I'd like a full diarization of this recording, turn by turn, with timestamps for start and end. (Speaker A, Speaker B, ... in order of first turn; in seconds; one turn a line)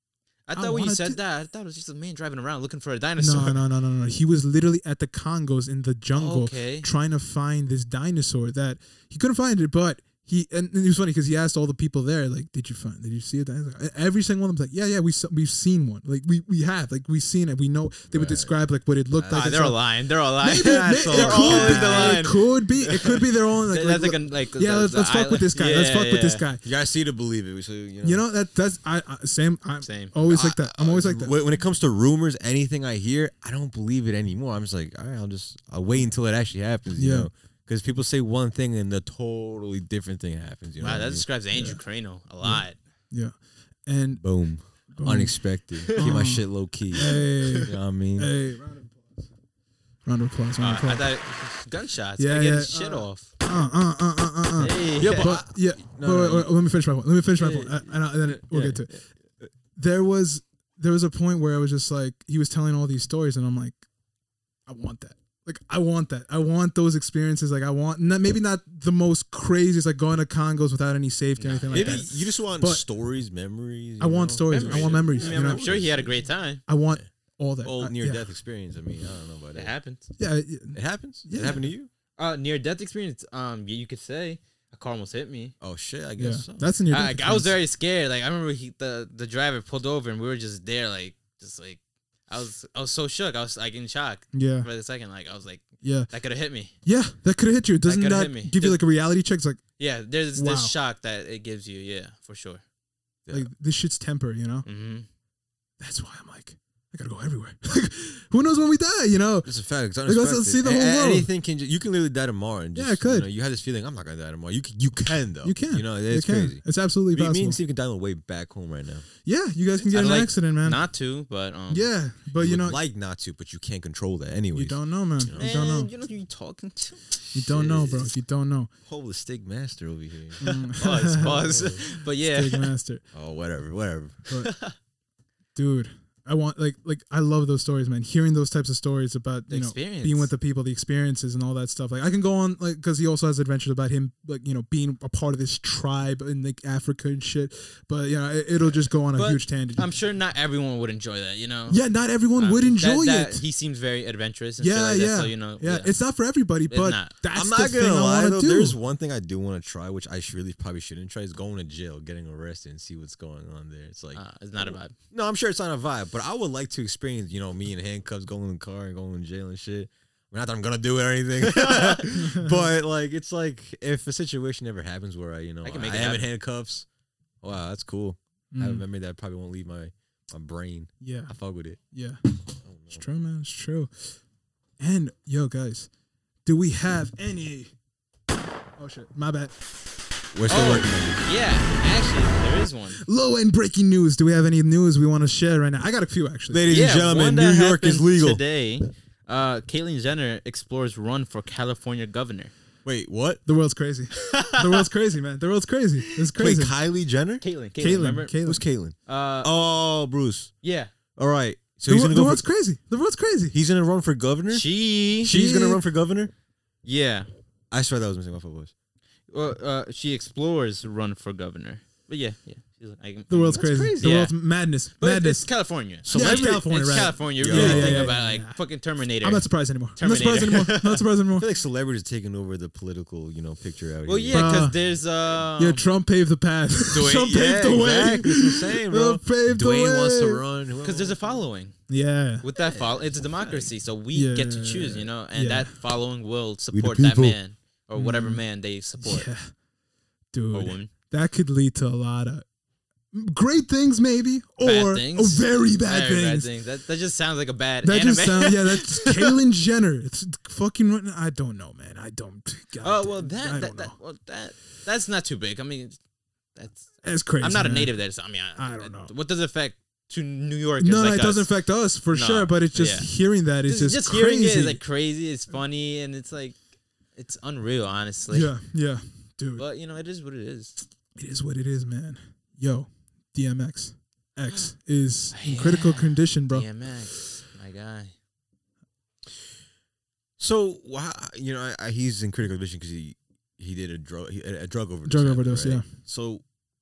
Speaker A: 0.5-3.6
Speaker B: 0.5-1.2
Speaker B: 3.2-19.8
Speaker A: 6.1-6.8
Speaker C: 18.1-18.5
Speaker C: 19.1-19.5
Speaker A: 19.3-26.4
Speaker B: 20.4-26.6
Speaker C: 20.5-22.3
Speaker C: 26.6-28.2
Speaker B: 28.0-31.4
Speaker A: 29.8-30.1
Speaker C: 30.3-41.2
Speaker B: 37.0-37.3
Speaker A: 40.8-42.8
Speaker B: 41.5-41.8
Speaker B: 42.4-43.3
Speaker B: 43.9-44.2
Speaker C: 44.2-48.3
Speaker B: 44.9-45.4
Speaker A: 45.8-46.2
Speaker B: 45.9-49.3
Speaker A: 46.9-47.6
Speaker B: 50.0-51.1
Speaker A: 50.6-53.3
Speaker B: 52.2-58.9
Speaker A: 54.6-55.4
Speaker C: 55.0-56.5
Speaker C: 57.4-59.5
Speaker B: 59.8-63.8
Speaker B: 64.7-72.8
Speaker A: 71.4-72.1
Speaker C: 71.7-76.3
Speaker B: 74.0-75.7
Speaker A: 74.5-76.6
Speaker B: 76.7-78.3
Speaker C: 77.6-79.7
Speaker A: 79.5-80.0
Speaker B: 80.2-81.7
Speaker C: 80.7-81.9
Speaker A: 82.2-85.5
Speaker C: 85.6-86.7
Speaker B: 86.2-87.5
Speaker A: 86.9-96.7
Speaker B: 94.3-94.7
Speaker B: 95.8-96.1
Speaker B: 96.8-99.6
Speaker A: 97.8-98.8
Speaker A: 99.8-102.6
Speaker B: 100.3-100.7
Speaker B: 103.3-104.7
Speaker A: 104.7-105.1
Speaker B: 105.8-109.5
Speaker C: 109.4-119.0
Speaker B: 110.0-111.3
Speaker B: 112.7-113.3
Speaker B: 115.4-117.6
Speaker B: 119.2-120.8
Speaker A: 119.9-121.9
Speaker B: 121.7-122.8
Speaker C: 122.4-125.6
Speaker B: 124.5-125.9
Speaker A: 125.3-127.2
Speaker C: 127.3-128.1
Speaker B: 127.3-128.7
Speaker C: 128.9-130.4
Speaker B: 130.4-133.0
Speaker A: 130.4-132.7
Speaker C: 131.4-131.8
Speaker C: 133.1-134.3
Speaker A: 134.4-134.7
Speaker B: 135.5-149.9
Speaker A: 139.5-140.3
Speaker A: 148.6-151.8
Speaker B: 151.7-153.4
Speaker A: 152.3-155.9
Speaker B: 154.6-158.8
Speaker A: 156.7-157.1
Speaker C: 157.3-176.8
Speaker A: 164.1-164.9
Speaker A: 171.4-172.1
Speaker B: 172.1-172.6
Speaker A: 175.6-176.3
Speaker C: 177.4-181.8
Speaker B: 178.5-178.8
Speaker B: 181.0-181.3
Speaker B: 181.9-182.2
Speaker C: 182.6-183.0
Speaker B: 182.9-183.9
Speaker B: 184.8-185.9
Speaker B: 186.4-187.7
Speaker B: 188.8-189.5
Speaker C: 190.3-191.2
Speaker A: 190.5-193.0
Speaker B: 193.0-196.7
Speaker C: 196.5-198.4
Speaker A: 196.7-202.5
Speaker C: 202.8-203.4
Speaker B: 203.4-206.7
Speaker A: 204.2-204.9
Speaker C: 206.3-207.4
Speaker A: 207.4-208.3
Speaker B: 207.8-208.6
Speaker C: 208.4-210.5
Speaker A: 209.1-209.5
Speaker A: 210.6-210.9
Speaker C: 211.2-212.4
Speaker B: 211.9-213.5
Speaker C: 213.5-214.7
Speaker A: 214.5-215.3
Speaker C: 215.2-216.3
Speaker B: 215.2-215.8
Speaker A: 216.8-217.3
Speaker C: 217.7-218.7
Speaker A: 219.3-224.4
Speaker B: 223.3-225.5
Speaker C: 223.5-224.2
Speaker A: 225.0-231.0
Speaker C: 226.1-226.6
Speaker B: 226.1-228.6
Speaker C: 227.3-228.1
Speaker B: 229.2-231.5
Speaker C: 231.4-234.7
Speaker A: 234.1-235.8
Speaker B: 234.3-234.7
Speaker B: 235.6-240.4
Speaker A: 236.9-237.3
Speaker C: 236.9-241.4
Speaker A: 240.8-241.7
Speaker B: 241.9-242.4
Speaker A: 242.4-249.3
Speaker C: 242.6-243.7
Speaker B: 244.1-245.7
Speaker C: 246.7-247.4
Speaker B: 247.9-248.4
Speaker B: 249.0-249.5
Speaker B: 250.3-252.4
Speaker A: 250.5-250.9
Speaker B: 253.1-256.5
Speaker A: 254.6-259.4
Speaker B: 257.8-263.9
Speaker A: 262.8-266.0
Speaker A: 266.6-271.5
Speaker B: 267.0-267.9
Speaker B: 268.6-269.1
Speaker B: 270.8-274.8
Speaker A: 272.1-273.1
Speaker A: 273.6-276.6
Speaker A: 277.1-278.5
Speaker B: 278.3-279.6
Speaker A: 279.6-280.8
Speaker B: 281.1-286.6
Speaker A: 285.3-288.1
Speaker C: 290.4-296.4
Speaker B: 295.0-295.9